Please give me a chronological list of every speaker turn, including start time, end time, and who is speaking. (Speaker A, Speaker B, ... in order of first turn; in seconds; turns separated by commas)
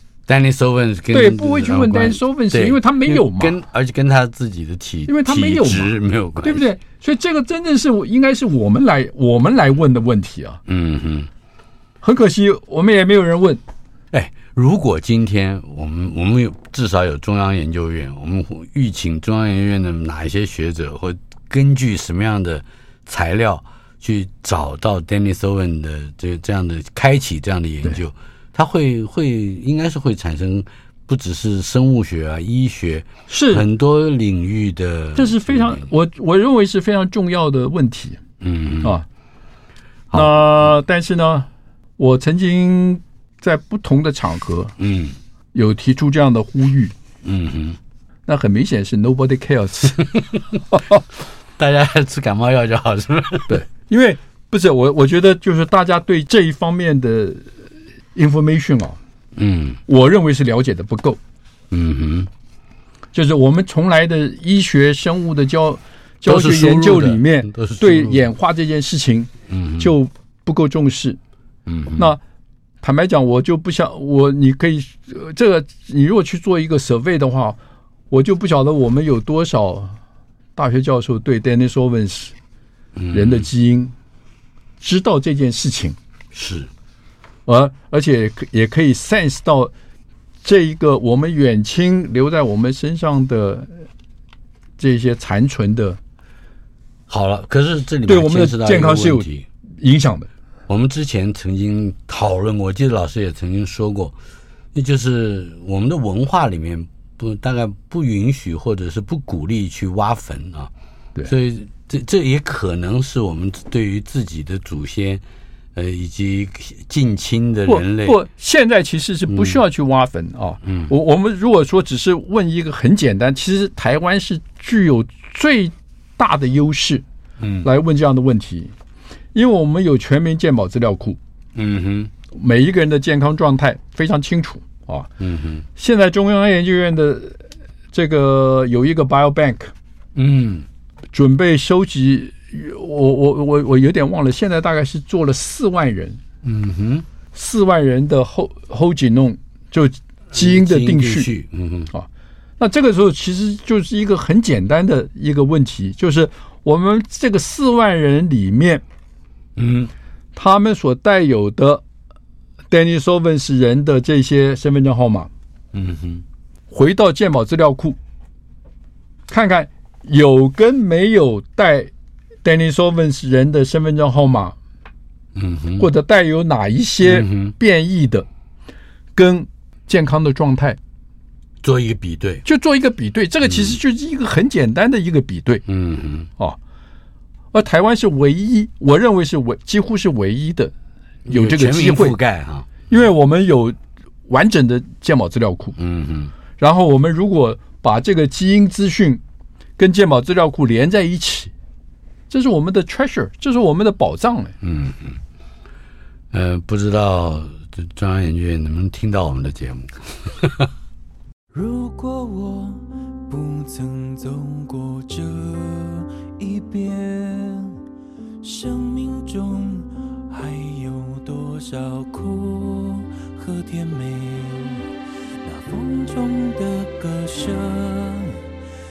Speaker A: 0.3-6.7, Speaker B: 1.1-3.6, Speaker B: 5.1-10.6, Speaker A: 10.7-11.3, Speaker B: 12.0-13.6, Speaker A: 14.1-35.9, Speaker B: 33.3-33.6, Speaker B: 35.1-38.2, Speaker A: 38.4-39.0, Speaker B: 40.1-44.8, Speaker A: 44.8-45.2, Speaker B: 45.5-46.9, Speaker A: 47.2-47.8, Speaker B: 48.3-50.1, Speaker A: 51.6-53.6, Speaker B: 53.5-57.6, Speaker B: 58.1-59.0, Speaker A: 59.4-59.8, Speaker B: 59.9-61.2, Speaker A: 61.7-62.3, Speaker B: 63.1-71.2, Speaker A: 66.2-68.3, Speaker A: 69.5-69.9, Speaker A: 71.7-72.1, Speaker B: 72.8-77.6, Speaker B: 78.1-80.0, Speaker B: 80.6-82.3, Speaker A: 83.0-83.5, Speaker B: 83.1-83.9, Speaker B: 84.8-86.0, Speaker A: 86.3-86.7, Speaker B: 87.5-89.7, Speaker B: 90.4-93.7, Speaker B: 94.8-96.0, Speaker A: 97.1-99.5, Speaker B: 98.1-99.3, Speaker B: 99.8-100.3, Speaker A: 100.7-104.2, Speaker A: 104.7-110.7, Speaker A: 111.3-115.2, Speaker A: 115.8-118.2, Speaker B: 117.7-127.0, Speaker A: 119.3-119.6, Speaker A: 120.7-120.9, Speaker A: 127.4-127.7, Speaker B: 127.6-128.7, Speaker B: 129.3-131.2, Speaker A: 131.6-132.1, Speaker B: 132.3-135.1, Speaker A: 135.2-135.7, Speaker B: 135.8-139.7, Speaker A: 140.2-140.7, Speaker B: 141.1-146.2, Speaker A: 146.4-147.1, Speaker B: 147.3-151.3, Speaker A: 150.3-151.9, Speaker B: 152.6-158.8, Speaker A: 159.6-159.9, Speaker B: 160.3-161.8, Speaker B: 162.7-165.3, Speaker A: 165.7-166.2, Speaker B: 166.7-168.0, Speaker B: 169.3-171.9, Speaker B: 172.4-174.6, Speaker A: 175.3-175.8, Speaker B: 175.8-178.3, Speaker A: 177.0-177.5, Speaker B: 179.2-180.8, Speaker A: 181.6-182.4, Speaker B: 182.4-185.6, Speaker A: 183.4-183.8, Speaker A: 185.7-186.3, Speaker B: 187.5-190.7, Speaker A: 191.3-192.9, Speaker B: 191.3-192.2, Speaker B: 192.9-193.8, Speaker B: 194.3-195.8, Speaker A: 195.8-196.3, Speaker B: 196.6-199.2, Speaker B: 199.8-201.5, Speaker B: 202.3-204.5, Speaker A: 204.6-205.2, Speaker A: 206.3-210.7, Speaker C: 211.5-217.8, Speaker C: 218.4-224.9, Speaker C: 225.4-228.4